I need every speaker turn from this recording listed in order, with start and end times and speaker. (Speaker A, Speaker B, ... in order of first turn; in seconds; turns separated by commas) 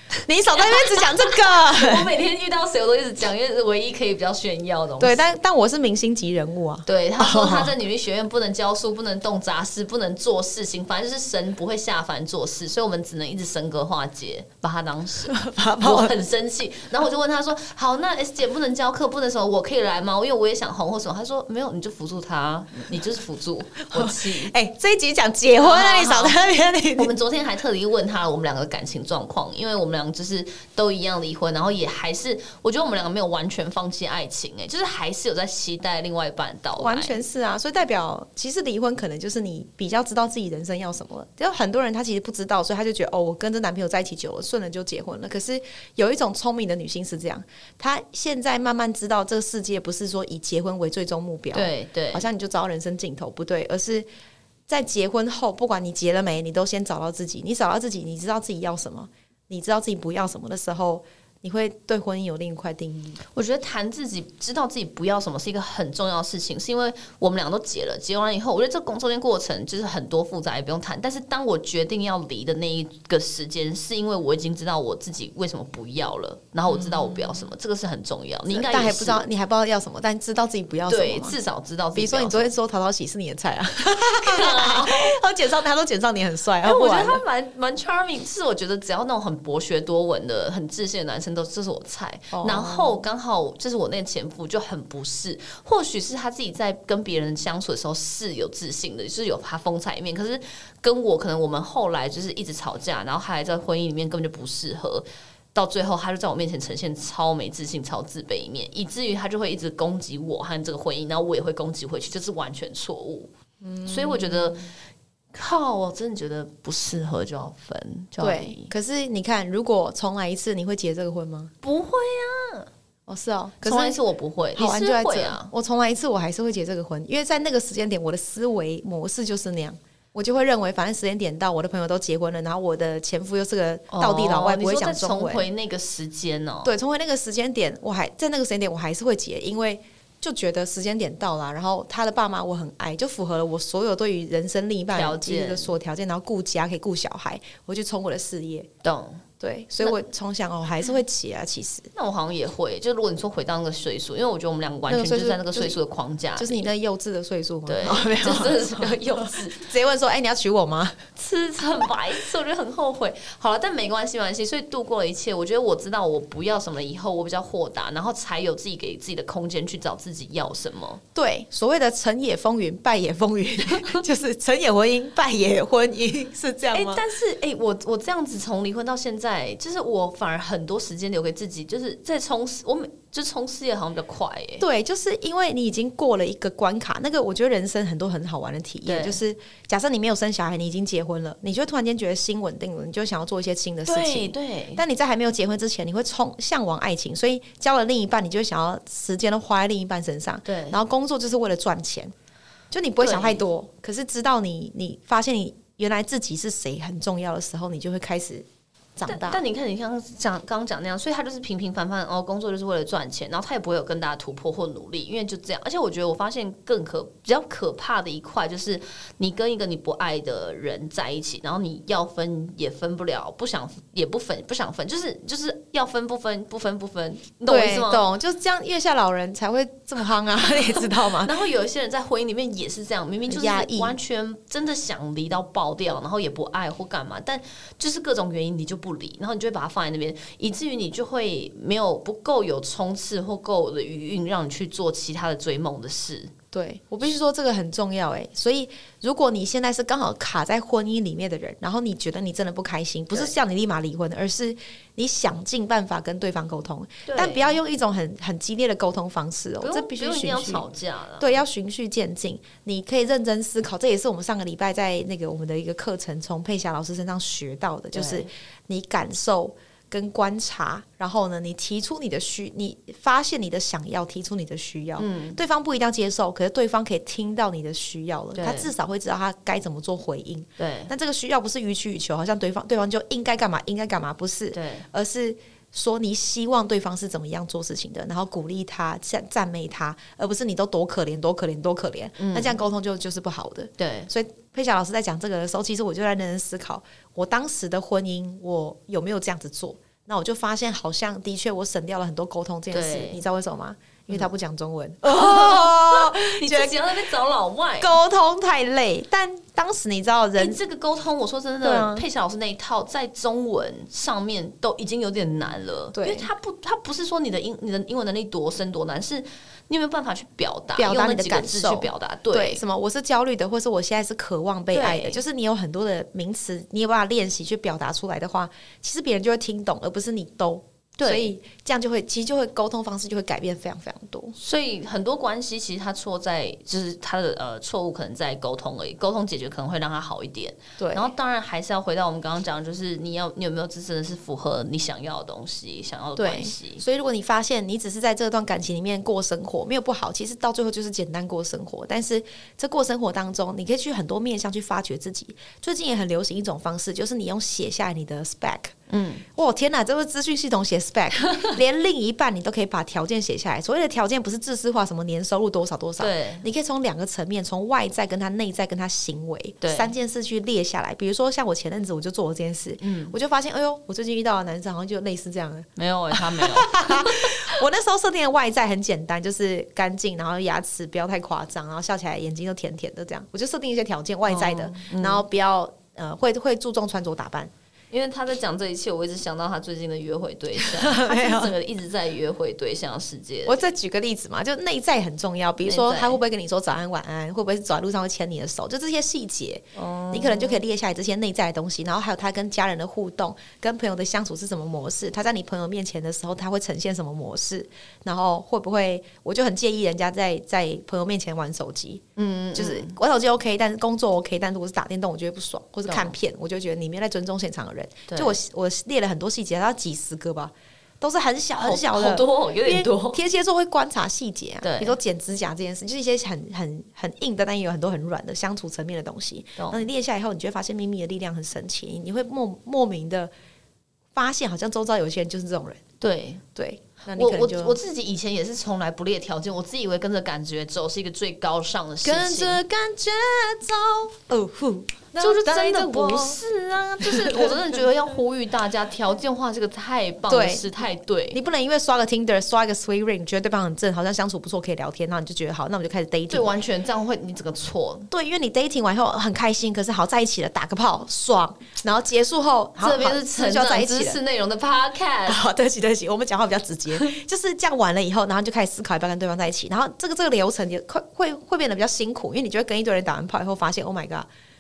Speaker A: 0.2-2.1, Speaker B: 0.5-5.2, Speaker A: 5.0-7.7, Speaker B: 6.9-24.5, Speaker A: 15.3-16.1, Speaker A: 23.9-27.1, Speaker B: 25.6-26.4, Speaker B: 27.0-37.2, Speaker A: 36.8-54.1, Speaker B: 51.5-52.3, Speaker A: 54.7-63.2, Speaker B: 63.3-79.3, Speaker A: 78.5-81.3, Speaker B: 80.9-82.5, Speaker A: 81.9-87.2, Speaker B: 84.1-85.2, Speaker B: 86.6-113.3, Speaker A: 92.3-92.9, Speaker A: 113.6-114.7, Speaker B: 113.9-114.7, Speaker B: 115.3-118.7, Speaker A: 118.2-121.5, Speaker B: 121.6-122.7, Speaker A: 123.1-124.0, Speaker B: 123.6-125.5, Speaker A: 124.6-135.5, Speaker B: 133.9-136.8, Speaker A: 136.6-148.7, Speaker B: 144.9-145.7, Speaker B: 148.8-149.2, Speaker A: 149.4-151.9, Speaker B: 151.9-156.7, Speaker A: 154.9-155.8, Speaker A: 156.4-161.0, Speaker B: 157.7-159.6, Speaker B: 161.2-171.0, Speaker A: 171.2-177.0, Speaker B: 173.6-174.0, Speaker B: 176.7-184.7, Speaker A: 184.6-202.1, Speaker B: 188.8-189.2, Speaker B: 193.8-194.8, Speaker B: 200.4-200.8, Speaker A: 202.7-208.5, Speaker B: 203.0-203.4, Speaker A: 209.0-209.4, Speaker B: 209.1-228.0, Speaker A: 227.5-231.3, Speaker B: 230.6-246.3, Speaker A: 233.3-233.9, Speaker A: 246.5-260.6, Speaker B: 257.1-257.6, Speaker B: 259.6-261.4, Speaker A: 261.2-306.8, Speaker B: 267.9-268.3, Speaker B: 275.0-275.4, Speaker B: 278.4-278.7, Speaker B: 280.6-280.9, Speaker B: 284.5-284.9, Speaker B: 292.2-292.6, Speaker B: 293.8-294.1, Speaker B: 302.7-303.2, Speaker B: 305.1-307.9, Speaker A: 307.8-310.6, Speaker B: 310.4-322.6, Speaker A: 311.6-312.1, Speaker A: 315.9-316.3, Speaker A: 320.8-334.4, Speaker B: 324.7-325.2, Speaker B: 331.0-331.3, Speaker B: 334.4-346.8, Speaker A: 340.8-341.1, Speaker A: 346.2-358.7, Speaker B: 358.9-359.2, Speaker A: 359.4-387.5, Speaker B: 366.0-366.5, Speaker B: 369.6-369.9, Speaker B: 372.8-373.2, Speaker B: 375.8-377.5, Speaker B: 384.2-385.2, Speaker B: 387.9-393.6, Speaker A: 390.6-391.5, Speaker A: 393.5-412.0, Speaker B: 395.6-396.2, Speaker B: 399.7-400.6, Speaker B: 412.2-413.0, Speaker A: 412.6-433.3, Speaker B: 415.9-416.1, Speaker B: 418.1-418.4, Speaker B: 421.6-423.2, Speaker B: 424.6-425.0, Speaker B: 429.6-429.9, Speaker A: 434.1-435.8, Speaker B: 436.0-436.4, Speaker A: 436.6-437.8, Speaker B: 437.1-442.6, Speaker A: 442.0-446.4, Speaker B: 445.2-451.4, Speaker A: 447.1-447.5, Speaker A: 450.3-450.7, Speaker A: 451.3-456.5, Speaker B: 456.3-458.1, Speaker A: 458.1-464.2, Speaker B: 462.8-465.4, Speaker A: 465.3-474.3